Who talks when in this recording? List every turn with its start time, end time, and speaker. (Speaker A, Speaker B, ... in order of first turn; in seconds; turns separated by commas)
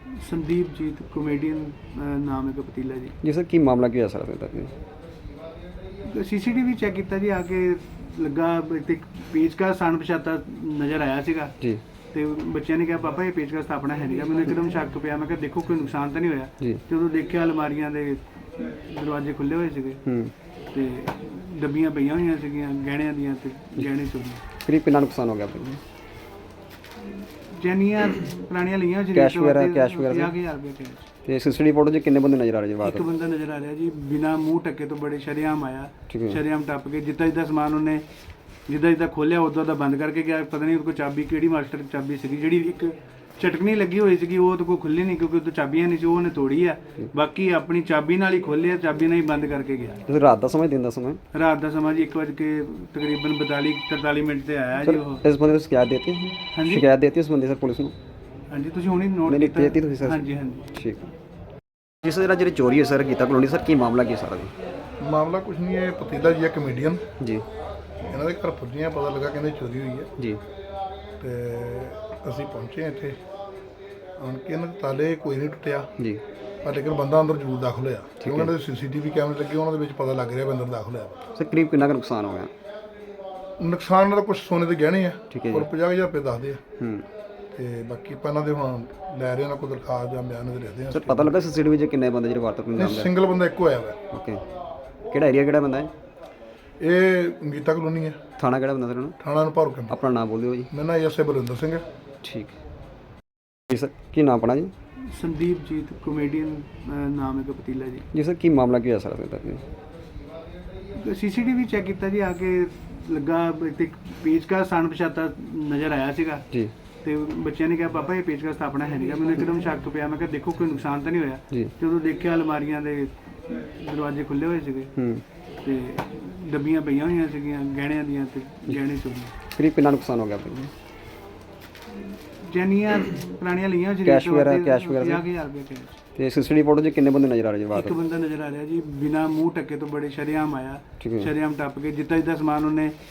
Speaker A: 0.1-3.1, Speaker B: 3.2-4.7, Speaker A: 6.0-11.5, Speaker A: 12.1-20.0, Speaker B: 20.1-20.3, Speaker A: 20.7-24.4, Speaker B: 24.6-25.8, Speaker A: 27.0-31.1, Speaker B: 29.1-30.3, Speaker B: 31.2-33.0, Speaker A: 32.8-38.0, Speaker B: 36.1-36.4, Speaker A: 38.7-50.0, Speaker B: 50.1-51.2, Speaker A: 51.3-55.2, Speaker B: 54.8-57.9, Speaker A: 56.5-56.8, Speaker A: 58.5-60.7, Speaker B: 59.3-61.1, Speaker B: 62.0-64.5, Speaker C: 65.0-67.0, Speaker B: 67.2-67.4, Speaker C: 68.1-70.1, Speaker C: 71.2-73.2, Speaker C: 74.2-75.9, Speaker C: 76.6-81.3, Speaker B: 78.2-78.5, Speaker B: 81.3-82.5, Speaker C: 83.6-86.6, Speaker B: 85.3-85.7, Speaker B: 86.8-87.1, Speaker C: 87.5-91.3, Speaker B: 90.9-93.1, Speaker C: 92.8-94.0, Speaker B: 94.1-94.4, Speaker B: 95.1-95.9, Speaker C: 96.8-98.2, Speaker B: 98.4-99.2, Speaker C: 99.2-99.9, Speaker B: 99.9-100.7, Speaker C: 100.7-101.8, Speaker B: 102.2-102.6, Speaker B: 103.7-104.7, Speaker A: 105.1-108.0, Speaker B: 108.1-109.6, Speaker A: 110.9-116.4, Speaker A: 117.0-124.9, Speaker B: 125.0-125.2, Speaker A: 125.6-129.3, Speaker B: 129.6-130.7, Speaker A: 131.9-136.0, Speaker B: 134.0-135.2, Speaker B: 136.2-138.0, Speaker A: 137.7-142.9, Speaker B: 141.0-141.3